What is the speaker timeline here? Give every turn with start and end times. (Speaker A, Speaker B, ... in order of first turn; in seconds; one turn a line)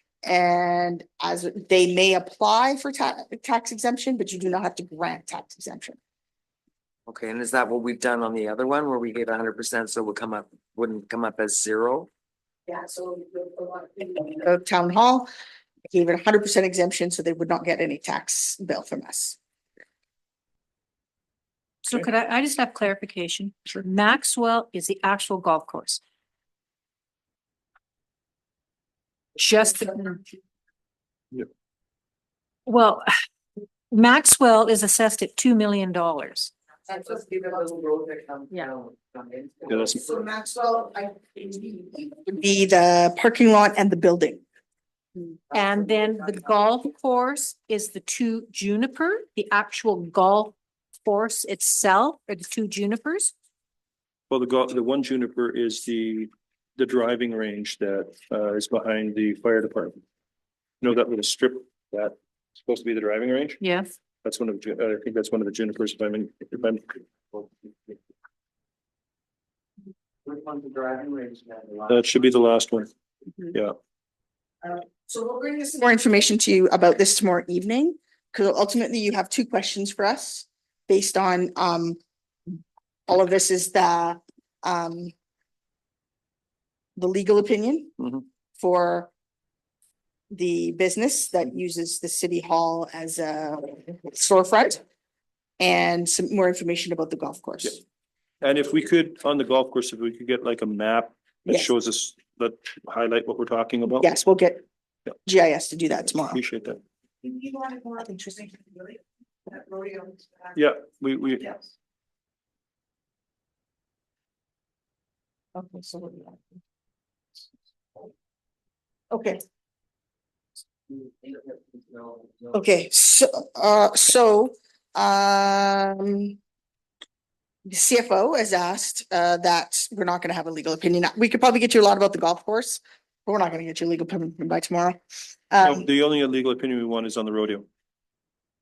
Speaker A: 0.2-6.0
Speaker B: 7.1-12.1
Speaker A: 12.7-15.3
Speaker A: 15.9-19.4
Speaker C: 21.8-26.0
Speaker C: 29.4-30.2
Speaker C: 32.7-33.1
Speaker C: 33.9-36.5
Speaker A: 37.0-37.3
Speaker B: 37.2-39.7
Speaker D: 39.7-40.0
Speaker A: 39.9-44.4
Speaker C: 45.5-53.3
Speaker D: 54.3-60.0
Speaker D: 60.8-63.6
Speaker C: 63.6-63.9
Speaker D: 64.2-67.5
Speaker B: 70.3-71.8
Speaker D: 71.9-72.9
Speaker A: 74.6-82.0
Speaker A: 83.1-85.1
Speaker A: 87.0-87.9
Speaker A: 88.6-89.1
Speaker A: 90.3-94.8
Speaker A: 95.6-97.8
Speaker D: 98.4-104.1
Speaker A: 104.0-104.6
Speaker A: 105.2-106.4
Speaker D: 106.2-106.8
Speaker A: 107.2-110.2
Speaker D: 110.5-111.5
Speaker A: 115.5-116.5
Speaker A: 119.1-119.4
Speaker A: 122.5-126.4
Speaker A: 127.7-135.0
Speaker A: 135.5-135.9
Speaker D: 135.6-137.7